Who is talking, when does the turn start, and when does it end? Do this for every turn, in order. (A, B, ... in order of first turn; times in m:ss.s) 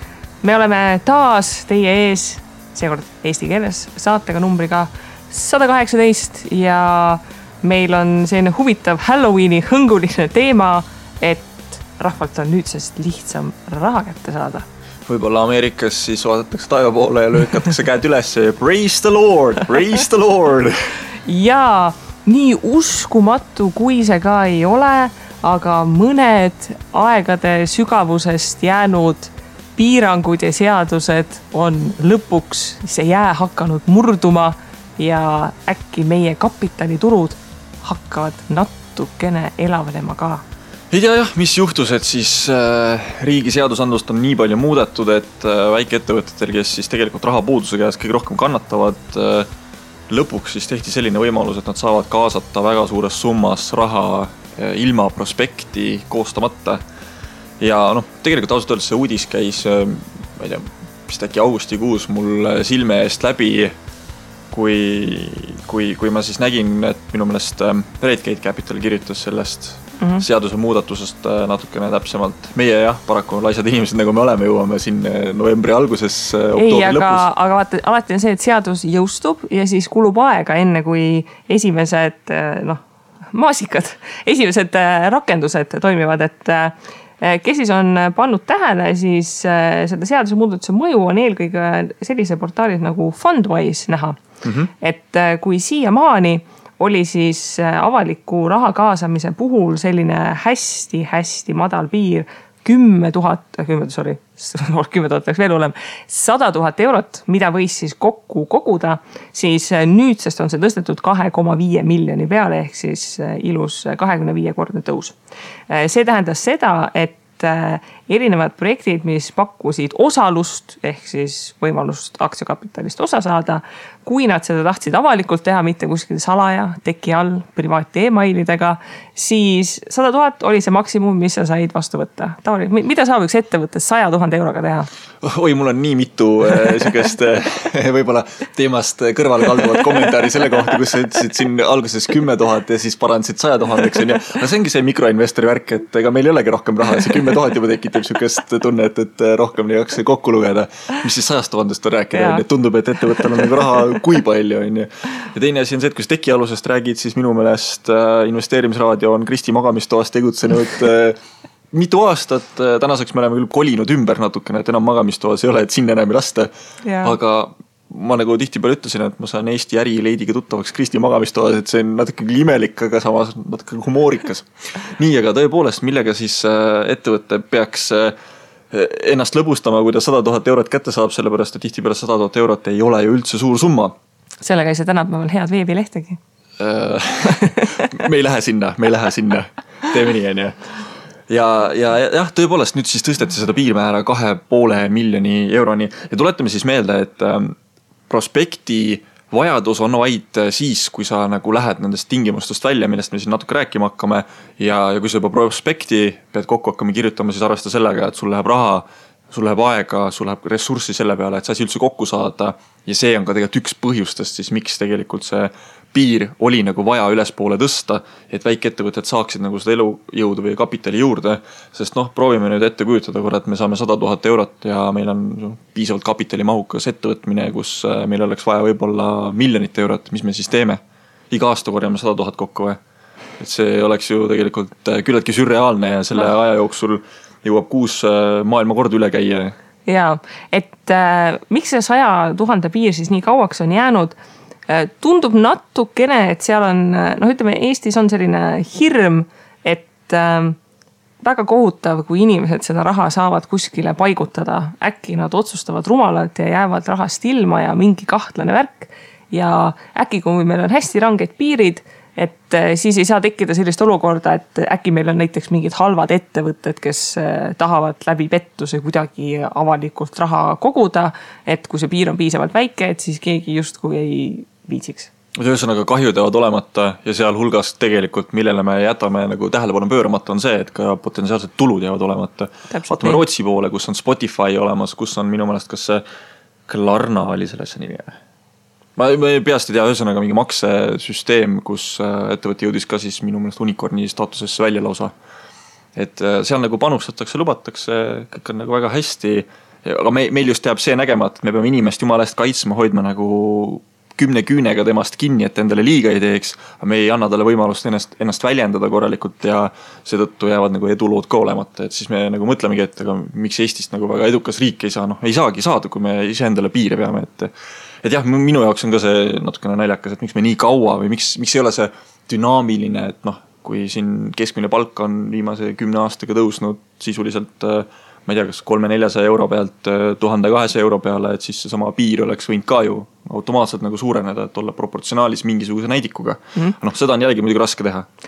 0:00.4-0:14.6 A
0:15.0-0:20.9 B
0:21.2-0:40.4 A
0:40.9-0:49.5 B
0:50.1-0:56.8 B
0:57.6-1:03.7 B
1:04.5-1:17.2 B
1:10.0-1:10.2 A
1:16.5-1:22.8 A
1:23.3-1:34.2 A
1:34.4-1:34.7 B
1:34.8-1:55.2 A
1:55.7-2:14.9 A
2:15.2-2:41.2 B
2:32.1-2:32.4 A
2:41.7-2:46.5 B
2:46.8-2:47.2 A
2:47.0-2:58.1 B
2:58.7-3:03.9 B
3:04.4-3:06.2 A
3:06.6-3:10.6 B
3:11.3-3:17.5 B
3:18.1-3:50.8 B
3:51.3-3:52.8 B
3:53.4-3:59.5 B
3:59.8-4:04.2 A
4:04.7-4:10.6 A
4:11.2-4:35.1 A
4:35.4-4:46.0 B
4:42.7-4:43.2 A
4:46.7-4:48.2 B
4:49.0-4:55.1 B
4:55.9-5:17.5 B
5:18.0-5:38.0 B